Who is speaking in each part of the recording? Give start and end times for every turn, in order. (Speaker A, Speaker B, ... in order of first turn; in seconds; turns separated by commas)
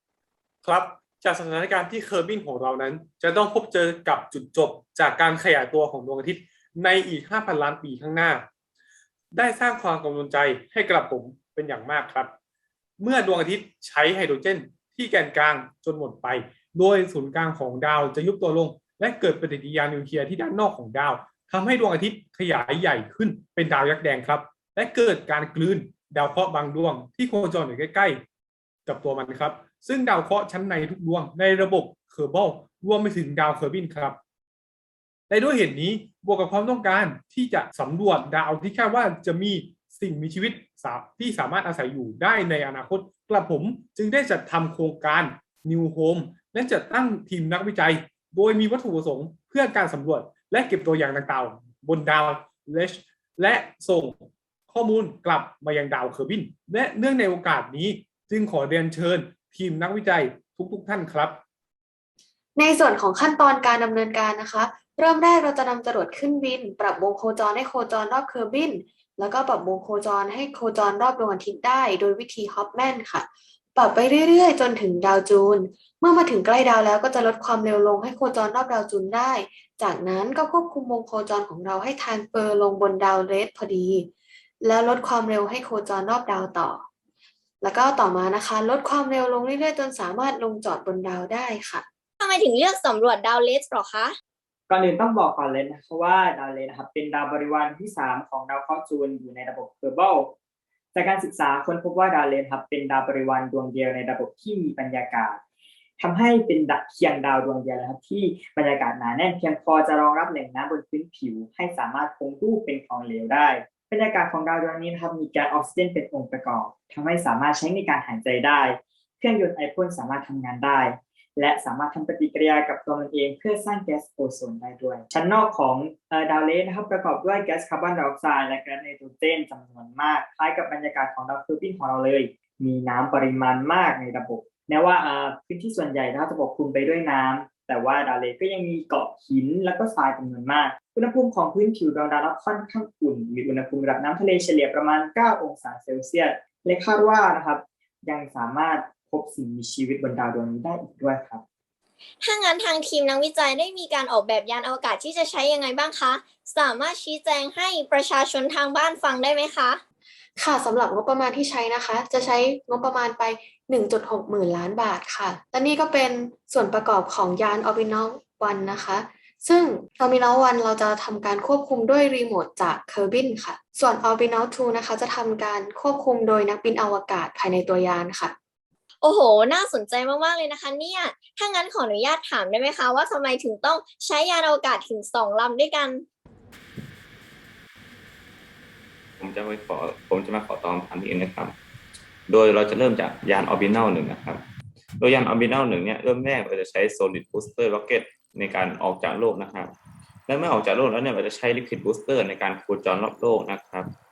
Speaker A: 0.6-8.5, Speaker A: 9.3-12.3, Speaker A: 13.0-28.2, Speaker A: 28.9-34.2, Speaker A: 35.3-61.4, Speaker B: 62.6-86.8, Speaker B: 87.6-91.8, Speaker C: 92.2-94.1, Speaker D: 94.7-100.3, Speaker D: 100.9-105.3, Speaker D: 106.0-118.6, Speaker D: 119.2-120.8, Speaker D: 121.4-151.4, Speaker C: 152.2-159.8, Speaker B: 160.4-178.3, Speaker C: 179.0-186.0, Speaker E: 189.2-191.6, Speaker E: 192.3-194.4, Speaker E: 195.0-199.7, Speaker E: 200.3-203.9